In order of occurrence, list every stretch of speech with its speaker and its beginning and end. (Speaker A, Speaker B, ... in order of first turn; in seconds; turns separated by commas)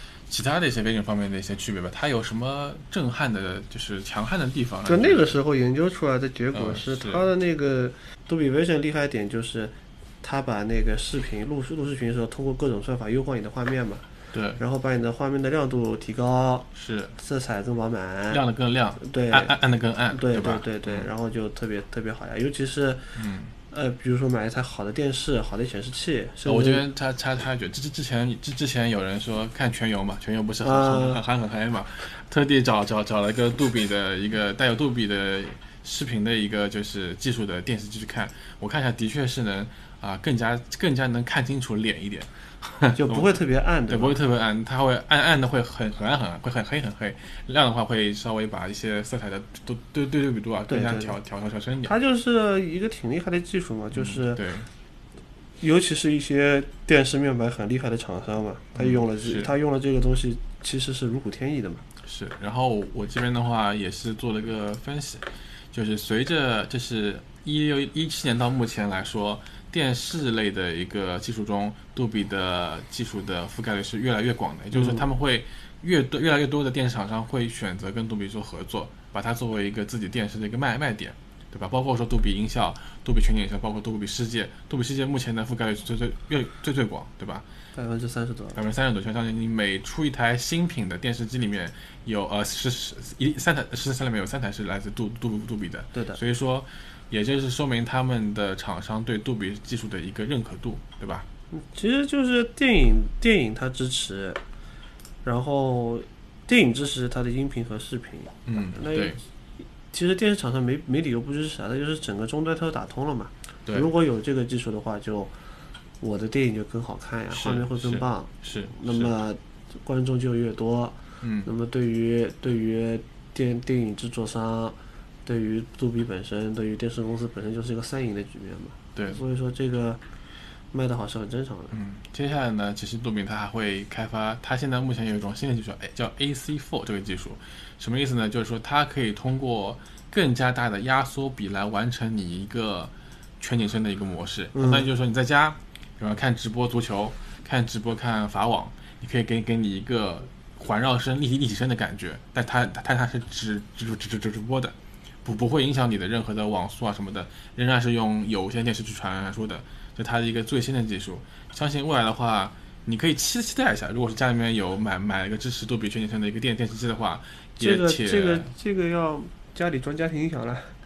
Speaker A: 0.3-5.4, Speaker B: 4.9-14.1, Speaker A: 6.5-7.3, Speaker A: 14.3-14.6, Speaker B: 14.6-18.4, Speaker A: 16.7-17.2, Speaker A: 18.3-21.1, Speaker B: 19.0-19.6, Speaker B: 20.1-23.2, Speaker A: 23.1-23.6, Speaker B: 23.7-26.8, Speaker A: 26.4-43.3, Speaker B: 30.6-31.2, Speaker B: 42.9-44.2, Speaker A: 43.9-52.0, Speaker B: 50.7-51.1, Speaker B: 51.9-54.4, Speaker A: 53.9-54.7, Speaker B: 55.6-61.8, Speaker A: 58.8-59.5, Speaker A: 62.0-87.5, Speaker B: 74.7-75.1, Speaker B: 87.7-88.6, Speaker A: 88.5-101.3, Speaker B: 101.5-104.4, Speaker B: 105.2-109.2, Speaker A: 108.5-109.2, Speaker B: 109.9-115.4, Speaker A: 113.7-113.9, Speaker B: 116.0-130.0, Speaker A: 117.3-119.1, Speaker A: 121.2-121.5, Speaker A: 128.9-129.2, Speaker B: 130.7-131.8, Speaker A: 131.7-168.5, Speaker B: 144.6-144.9, Speaker B: 167.6-170.7